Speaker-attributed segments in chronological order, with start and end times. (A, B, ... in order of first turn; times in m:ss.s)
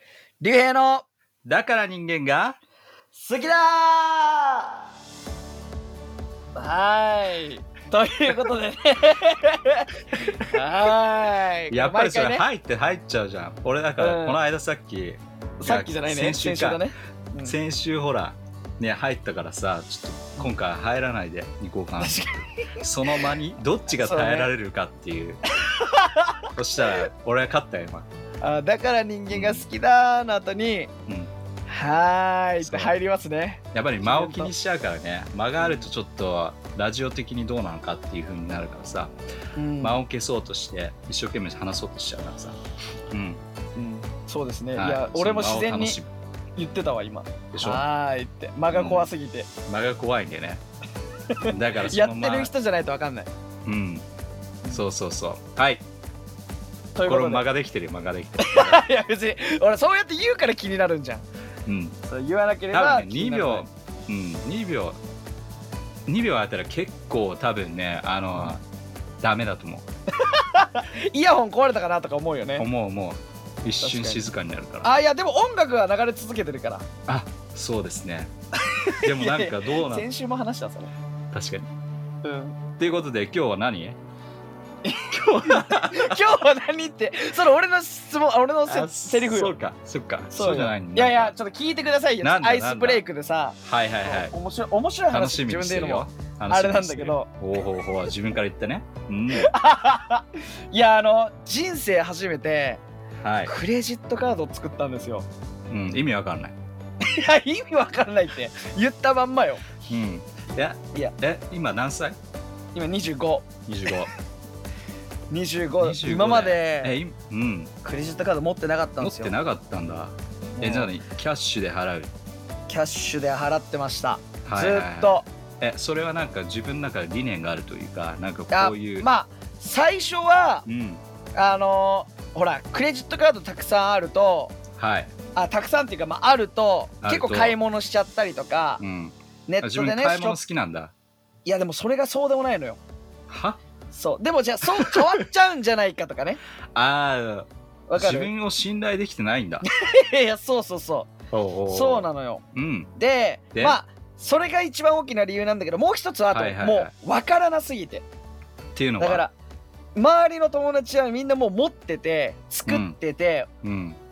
0:00.4-0:01.0 A
0:01.4-0:02.6 B
0:03.1-0:04.7 A
0:06.6-0:12.5 A
0:11.7-0:16.8 B
0:14.0-0:14.4 A
0:15.6-0:17.6 A
0:17.4-0:25.4 B
0:22.0-0:23.3 A
0:24.0-0:24.5 A
0:25.6-0:27.0 A
0:26.5-0:28.1 B
0:28.4-0:30.9 A
0:29.3-0:29.6 B
0:31.1-0:31.3 B
0:31.7-0:34.5 A
0:32.6-0:33.0 B
0:33.7-0:39.1 B
0:35.6-0:35.9 A
0:39.6-0:40.0 A
0:39.8-0:42.6 B
0:43.1-0:43.4 B
0:43.8-0:46.0 A
0:44.7-0:46.1 B
0:46.6-0:49.5 A
0:47.5-0:47.8 B
0:48.7-0:49.1 B
0:49.7-0:50.6 B
0:51.3-0:53.3 A
0:51.4-0:52.5 B
0:53.6-0:54.0 B
0:54.7-0:55.8 B
0:57.0-0:57.4 A
0:57.0-0:58.9 B
0:58.4-1:01.2 A
1:01.7-1:02.0 B
1:02.1-1:03.7 A
1:02.7-1:05.0 B
1:06.1-1:08.6 B
1:09.2-1:09.9 B
1:10.2-1:12.7 A
1:12.6-1:14.9 B
1:13.8-1:14.2 A
1:14.8-1:16.9 A
1:17.1-1:18.3 B
1:18.7-1:20.9 A
1:19.0-1:20.1 B
1:21.3-1:21.7 B
1:22.2-1:22.6 A
1:22.8-1:24.0 B
1:24.9-1:29.6 A
1:25.0-1:26.2 B
1:28.7-1:31.3 B
1:30.3-1:37.3 A
1:32.2-1:33.0 B
1:33.6-1:34.3 B
1:35.1-1:39.5 B
1:39.3-1:42.8 A
1:43.2-1:43.5 B
1:43.4-1:45.3 A
1:45.7-1:46.6 B
1:47.0-1:49.6 A
1:49.9-1:52.2 B
1:52.8-1:53.5 A
1:53.7-1:54.1 B
1:55.3-1:57.0 A
1:55.8-1:57.7 B
1:57.8-1:59.3 A
1:59.0-2:02.1 B
2:00.6-2:00.9 A
2:02.7-2:05.3 A
2:04.4-2:09.1 B
2:08.5-2:10.6 A
2:10.7-2:11.0 B
2:11.4-2:14.6 A
2:14.8-2:15.1 B
2:15.4-2:18.8 A
2:17.0-2:17.6 B
2:18.8-2:20.9 B
2:19.5-2:20.4 A
2:21.5-2:22.8 A
2:23.3-2:23.6 B
2:23.9-2:26.4 A
2:24.8-2:25.2 B
2:26.7-2:29.6 B
2:27.9-2:28.3 A
2:29.6-2:31.1 A
2:31.3-2:32.9 B
2:31.7-2:32.4 A
2:33.0-2:38.0 A
2:36.3-2:36.9 B
2:38.8-2:39.2 B
2:39.0-2:39.3 A
2:40.0-2:43.5 A
2:42.7-2:43.0 B
2:43.6-2:44.0 B